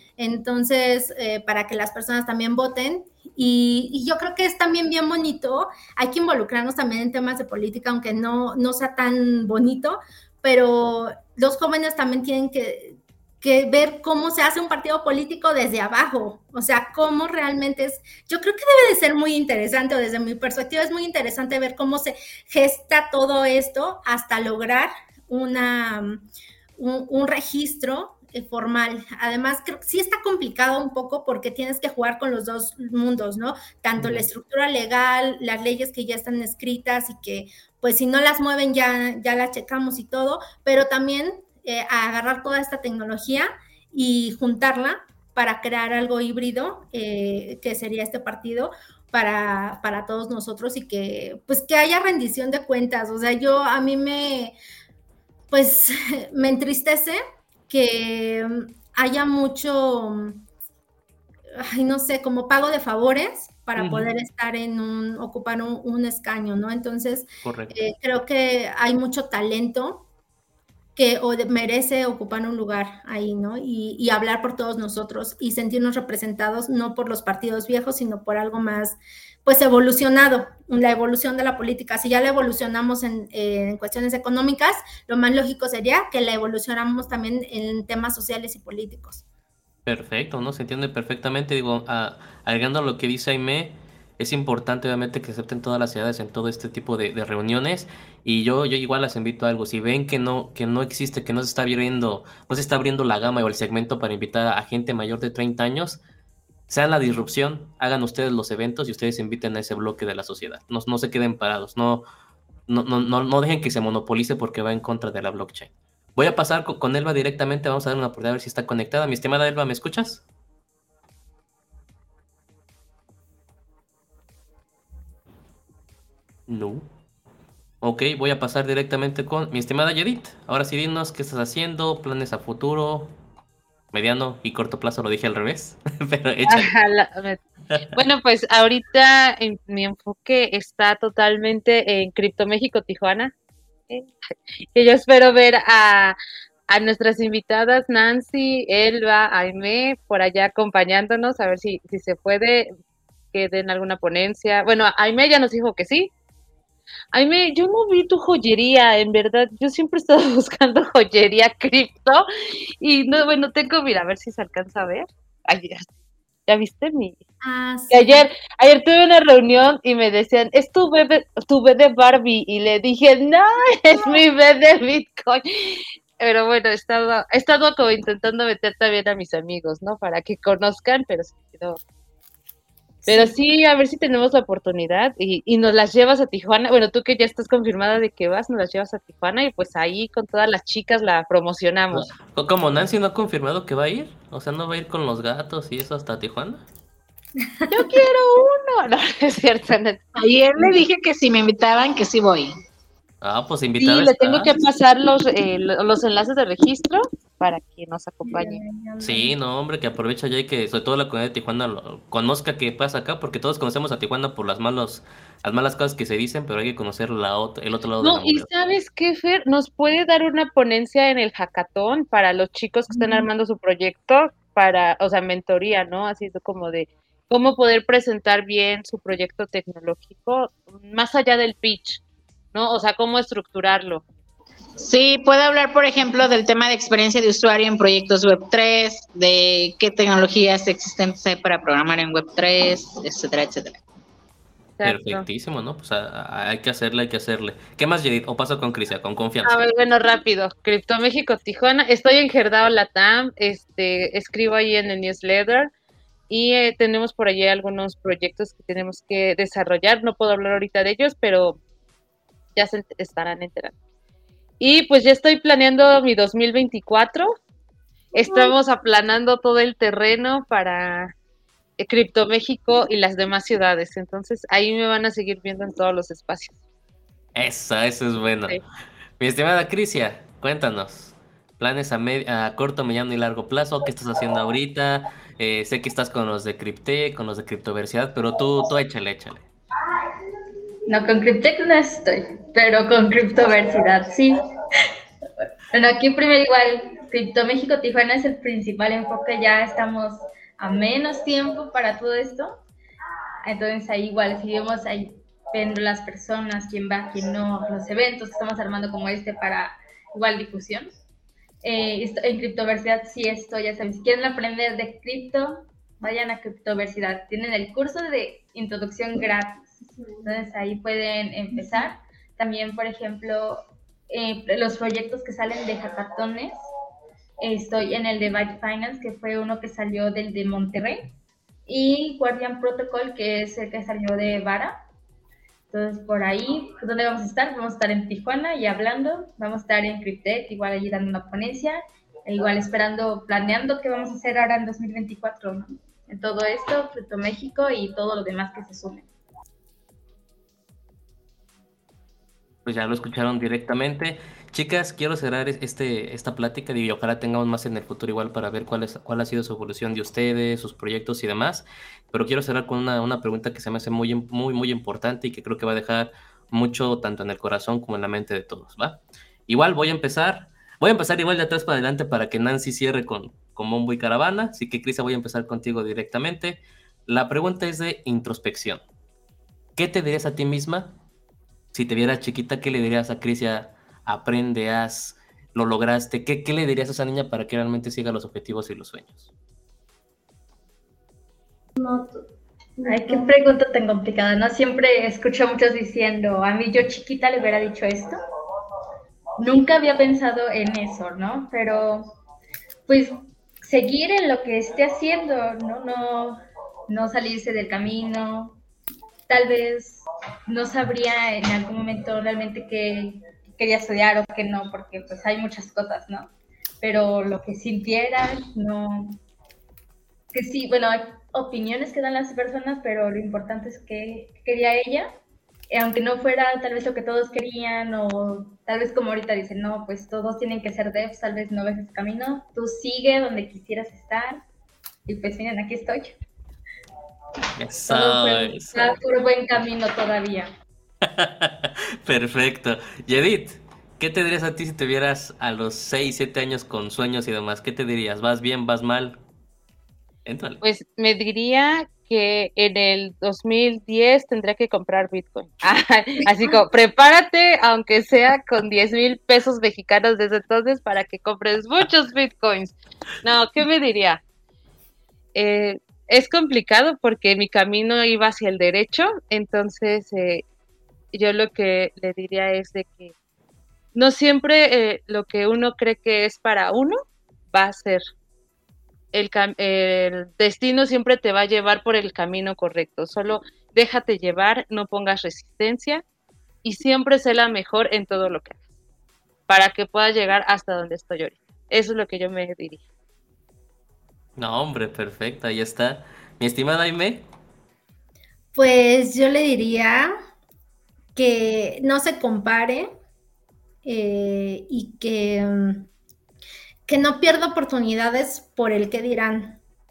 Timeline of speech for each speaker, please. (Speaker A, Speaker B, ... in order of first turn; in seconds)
Speaker A: 0.2-26.2, 26.8-54.5, 55.5-60.4, 61.6-70.0, 71.0-89.2, 167.4-168.2, 498.5-500.1, 501.1-502.9, 503.8-505.9, 506.9-509.6
Speaker B: 34.0-34.2, 63.8-64.1, 67.4-67.7, 89.8-106.0, 106.7-112.0, 112.7-120.2, 126.5-126.9, 127.8-133.1, 133.9-136.7, 191.9-196.6, 203.2-204.5, 209.0-218.5, 244.8-249.6, 277.3-278.6, 279.2-289.4, 352.6-378.8, 379.8-380.9, 381.7-389.3, 437.6-439.0, 441.0-449.2, 450.2-450.6, 494.4-497.2
Speaker C: 136.4-137.4, 137.9-143.3, 144.7-146.2, 146.7-152.7, 153.3-156.1, 157.1-162.2, 162.8-165.9, 166.5-167.2, 167.9-181.8, 183.1-192.1, 197.7-200.0, 203.8-208.6, 218.0-232.0, 232.5-234.0, 244.8-245.2, 249.4-255.7, 256.3-261.6, 262.5-263.7, 264.6-267.3, 268.1-271.1, 271.8-276.6, 450.6-464.2, 465.3-470.4, 471.1-473.1, 473.9-476.9, 477.5-478.0, 479.1-486.0, 486.6-488.6, 489.5-492.8
Speaker D: 200.1-202.5, 234.8-243.8
Speaker E: 208.6-209.1, 290.9-294.4, 295.7-302.6, 303.4-311.0, 311.6-326.5, 327.4-331.1, 331.6-334.8, 335.7-349.1, 392.8-398.1, 399.4-402.1, 402.9-408.6, 409.3-419.2, 420.3-425.1, 425.7-434.4, 435.1-436.1, 437.9-440.5